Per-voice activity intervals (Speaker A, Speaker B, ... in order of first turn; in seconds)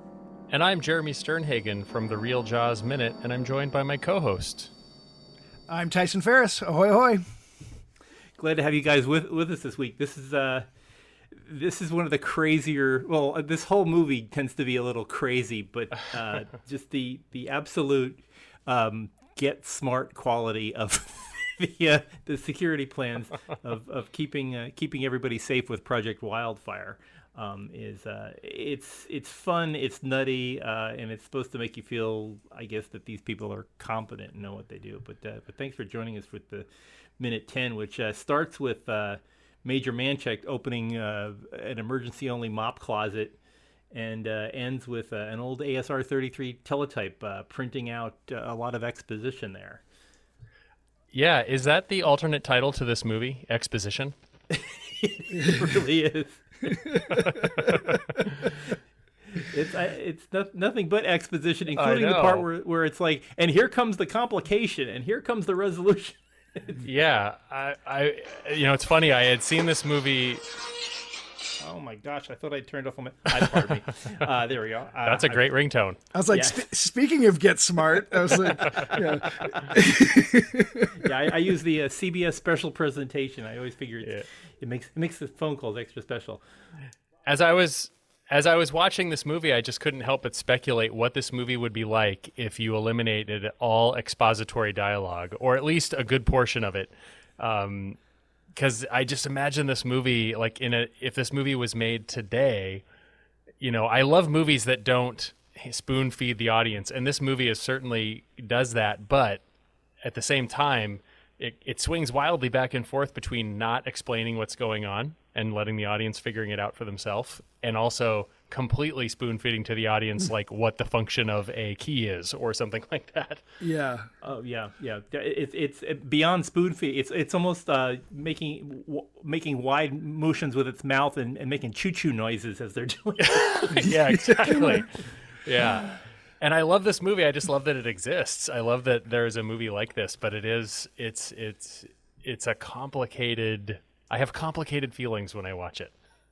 Speaker A: 0.5-4.7, 51.1-54.1, 57.0-58.5, 61.7-62.4, 66.8-70.4, 73.3-73.6, 75.0-76.0, 78.6-79.0, 87.3-98.0, 98.5-102.8, 103.6-109.4, 110.0-123.4, 133.3-145.9
Speaker B: 5.7-7.2, 76.1-81.1, 123.6-124.1, 134.2-134.8
Speaker C: 8.4-10.7, 11.3-36.7, 37.2-43.4, 43.9-49.8, 54.5-58.5, 59.3-66.8, 71.6-75.5, 76.3-76.7, 78.5-79.7, 80.9-86.4, 124.2-134.7